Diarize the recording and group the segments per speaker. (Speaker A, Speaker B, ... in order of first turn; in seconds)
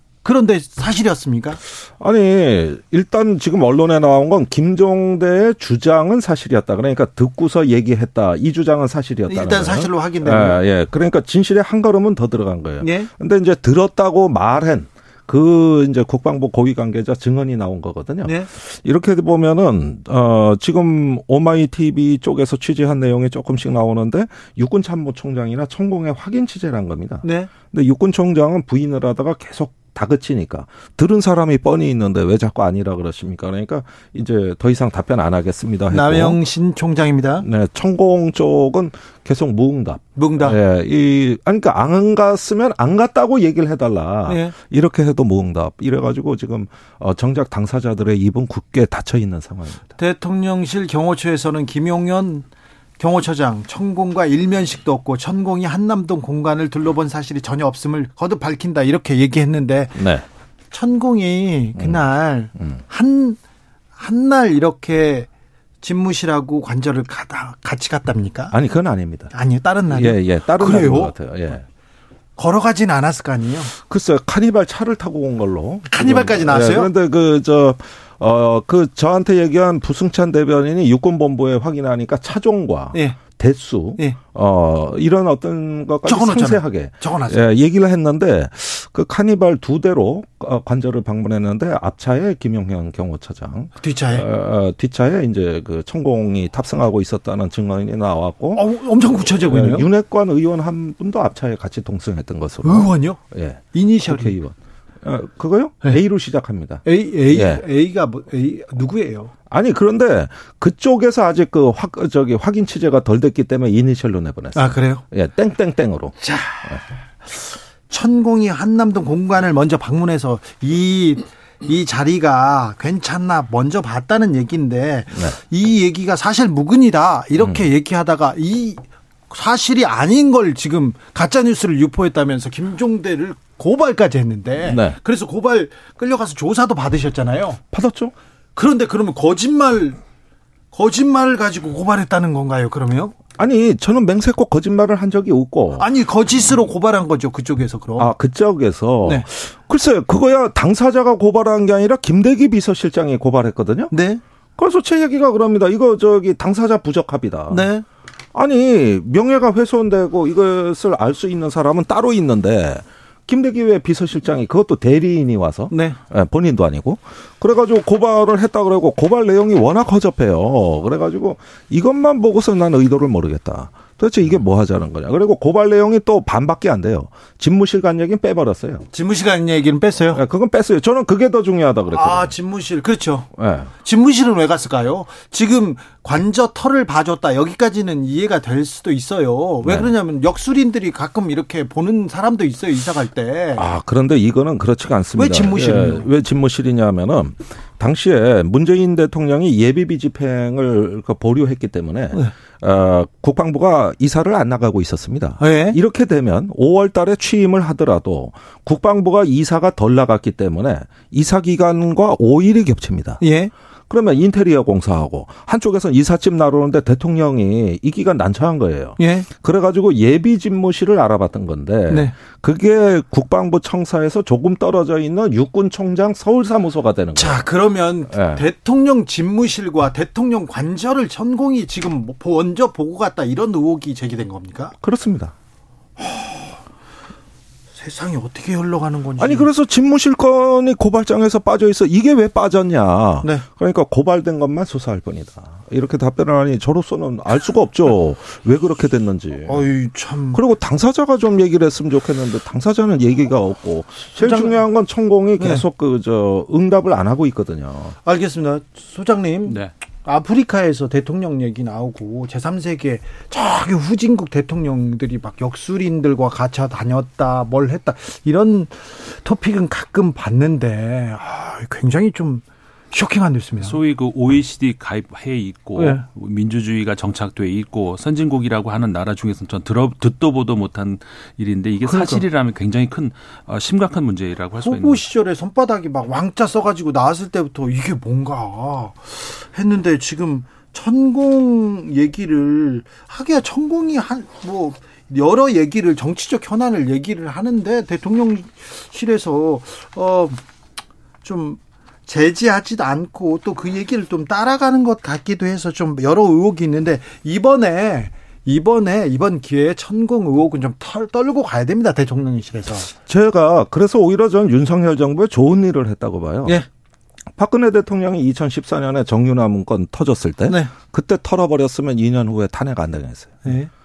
Speaker A: 0.2-1.6, 9.3-10.6, 12.8-13.1, 27.2-27.5, 35.9-37.4, 40.2-40.6, 44.3-44.5, 50.0-52.4, 53.0-60.1, 60.7-63.4, 64.0-65.3, 65.8-68.5, 69.3-71.1, 72.4-73.7, 75.9-76.9, 82.9-83.2, 86.0-87.4, 93.8-94.2, 98.5-99.9, 102.6-103.2, 103.7-104.3, 106.8-109.3, 114.5-115.0, 116.2-137.6, 138.6-140.0, 140.7-143.2, 145.8-148.1, 153.9-154.2, 157.5-157.8, 165.7-166.0, 178.9-180.2, 181.9-183.3, 183.8-193.6, 195.2-196.0, 205.4-205.8, 213.2-213.5, 219.0-219.3, 227.2-234.7, 237.8-239.5, 249.4-250.4, 254.2-254.6, 255.4-255.6, 258.0-273.8, 275.8-276.0, 281.8-282.2, 284.6-300.4, 301.2-312.9, 323.4-323.7
Speaker B: 1.9-36.4, 37.4-49.9, 60.0-60.2, 68.5-69.3, 69.9-71.6, 73.8-107.6, 109.5-116.2, 127.4-127.6, 134.6-135.0, 137.7-138.1, 143.4-145.9, 148.0-153.9, 154.6-157.7, 158.3-178.8, 180.1-182.3, 183.3-183.7, 189.6-189.9, 193.5-213.2, 213.9-227.4, 228.1-228.4, 234.8-235.3, 239.2-249.6, 250.3-258.0, 313.1-316.6, 317.3-323.4
Speaker C: 259.4-259.7, 273.6-285.1